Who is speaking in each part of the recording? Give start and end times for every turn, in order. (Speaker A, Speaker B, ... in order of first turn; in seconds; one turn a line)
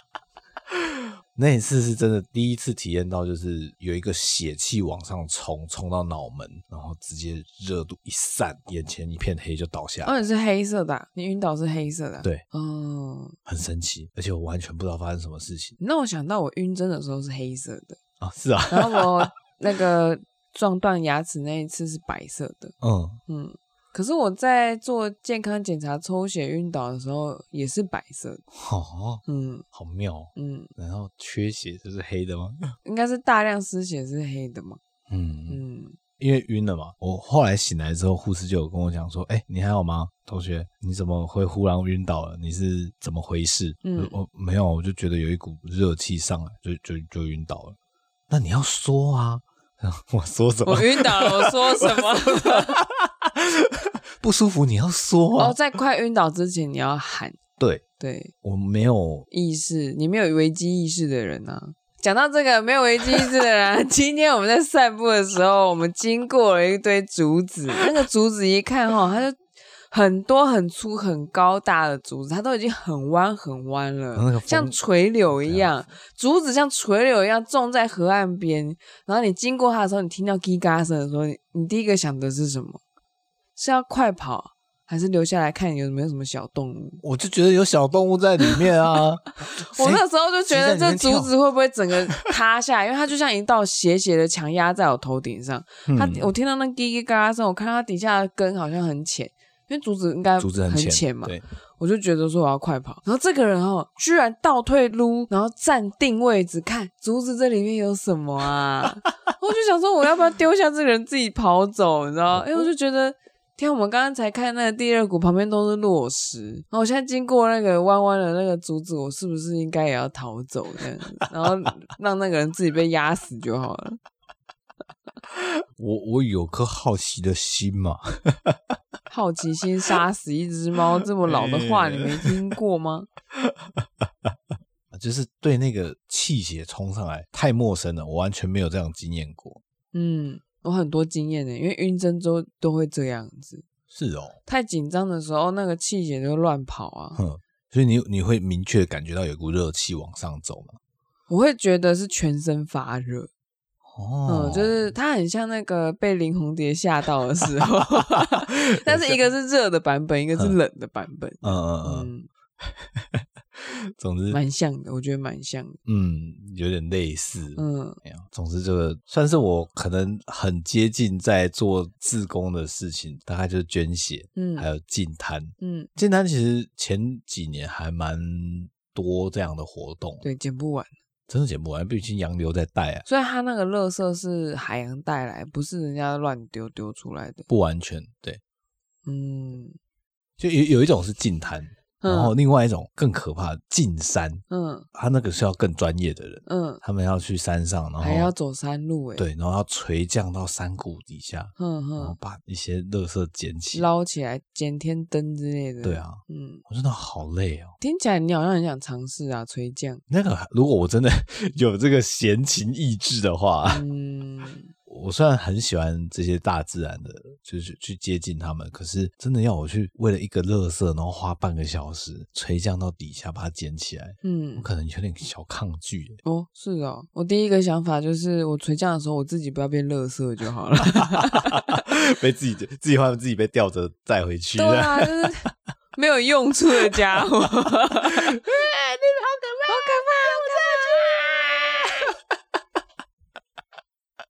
Speaker A: 0.7-10.1
Speaker B: 10.0-13.4
Speaker A: 13.5-15.8
Speaker B: 15.8-18.0
Speaker A: 18.2-19.3
Speaker B: 18.7-22.8
Speaker A: 22.8-23.2
Speaker B: 23.3-28.4
Speaker A: 28.5-32.7
Speaker B: 29.3-29.6
Speaker B: 30.4-30.7
Speaker B: 32.9-34.8
Speaker A: 35.1-35.6
Speaker B: 35.5-36.0
Speaker A: 36.2-47.8
Speaker B: 43.8-44.2
Speaker A: 48.3-55.6
Speaker B: 50.7-52.8
Speaker B: 55.4-57.4
Speaker A: 57.6-57.8
Speaker B: 58.0-58.3
Speaker A: 58.4-59.3
Speaker B: 59.3-82.8
Speaker A: 74.2-74.8
Speaker A: 75.3-75.7
Speaker B: 83.6-87.0
Speaker A: 87.0-91.3
Speaker B: 89.6-124.0
Speaker A: 95.9-96.3
Speaker A: 100.4-101.5
Speaker A: 112.3-112.7
Speaker A: 125.3-128.6
Speaker B: 129.1-133.1
Speaker A: 131.2-132.3
Speaker A: 133.4-134.3
Speaker A: 134.9-139.6
Speaker B: 139.9-143.7
Speaker A: 143.9-144.4
Speaker B: 144.5-147.2
Speaker A: 147.2-150.8
Speaker B: 151.3-153.3
Speaker A: 153.9-154.9
Speaker B: 154.3-162.3
Speaker A: 158.2-159.2
Speaker A: 161.4-162.1
Speaker A: 162.6-164.4
Speaker B: 164.3-165.8
Speaker A: 165.9-180.3
Speaker B: 167.6-168.0
Speaker B: 174.4-174.7
Speaker B: 175.6-175.9
Speaker B: 180.2-180.9
Speaker A: 181.3-183.1
Speaker B: 183.1-187.5
Speaker A: 187.5-188.4
Speaker B: 189.1-189.8
Speaker A: 190.4-198.3
Speaker B: 192.0-192.3
Speaker B: 194.5-194.9
Speaker B: 196.5-196.8
Speaker B: 198.0-199.3
Speaker A: 199.2-203.9
Speaker B: 201.6-202.2
Speaker B: 203.7-206.6
Speaker A: 205.8-207.8
Speaker B: 207.8-210.0
Speaker A: 210.1-213.8
Speaker B: 213.7-214.7
Speaker A: 214.9-226.2
Speaker B: 224.2-224.7
Speaker B: 226.2-231.7
Speaker A: 231.0-235.3
Speaker B: 234.6-238.4
Speaker A: 238.3-242.1
Speaker B: 239.7-241.1